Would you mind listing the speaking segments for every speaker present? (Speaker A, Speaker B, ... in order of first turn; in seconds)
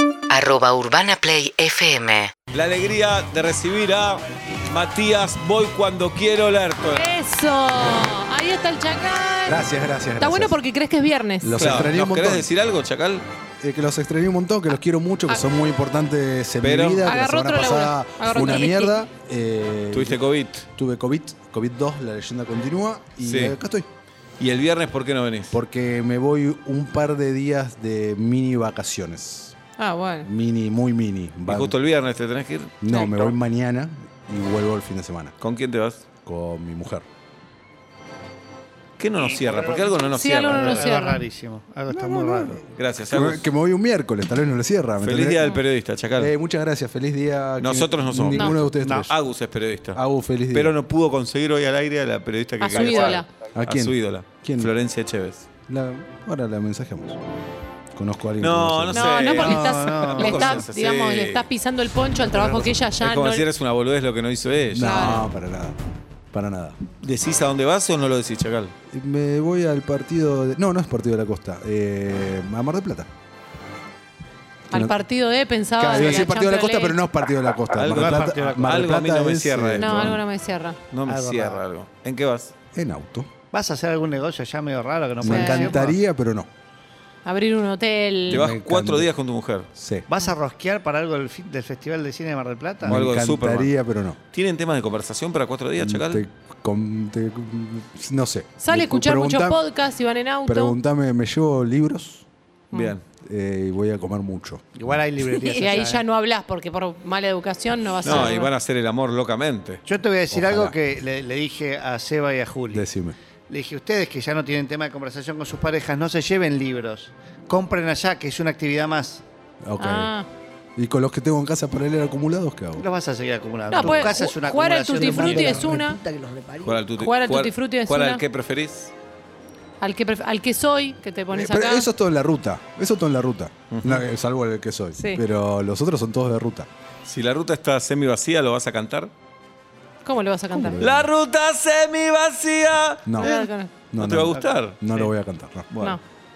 Speaker A: 0.3-2.3
Speaker B: 2.5-7.1, 11.6-13.3, 16.6-17.1, 19.9-20.7, 23.2-23.6, 24.4-25.5, 31.5-33.2, 35.4-36.0, 39.0-40.9, 42.7-43.5, 45.0-46.3, 47.6-55.5, 58.4-61.5, 62.3-65.2, 67.0-68.7, 77.7-80.2, 80.9-82.5, 88.3-89.7, 92.9-93.7, 94.3-96.2, 102.7-103.0, 108.0-109.8, 126.6-128.9, 133.7-134.0, 137.1-139.1, 140.8-145.1, 145.7-146.0
Speaker C: 7.0-9.6, 10.2-11.8, 17.1-19.1, 29.8-30.3, 40.1-41.2, 52.6-53.3, 58.9-63.5, 64.8-65.2, 74.7-77.0, 79.8-80.8, 85.3-85.8, 87.2-88.5, 98.6-100.8, 105.5-108.5, 119.8-120.3, 123.7-126.0, 127.0-128.2, 129.8-131.9, 135.0-135.2, 140.1-140.8, 143.2-143.7
Speaker D: 9.5-10.6, 11.4-12.5, 13.6-20.2, 20.8-23.9, 25.5-29.6, 30.2-31.8, 32.8-35.4, 36.2-37.1, 41.9-45.6, 46.2-49.1, 50.0-50.8, 53.5-54.7, 55.7-57.2, 58.0-59.6, 64.7-65.8, 66.3-66.8, 68.9-73.1, 74.7-75.0, 75.8-80.2, 82.7-83.3, 85.2-86.5, 88.3-89.1, 89.8-90.1, 92.8-94.2, 95.8-99.6, 100.5-102.2, 103.2-104.6, 110.3-110.8, 112.7-113.2, 119.6-120.1, 120.8-122.9, 125.5-125.9, 131.3-136.7, 140.5-141.1, 143.1-143.3, 143.9-145.7
Speaker E: 39.2-42.6, 48.8-49.1, 59.4-60.6, 77.9-78.9, 81.1-81.6, 83.5-86.0, 90.1-93.0, 104.8-106.0, 109.9-112.9, 113.5-119.2, 122.8-126.6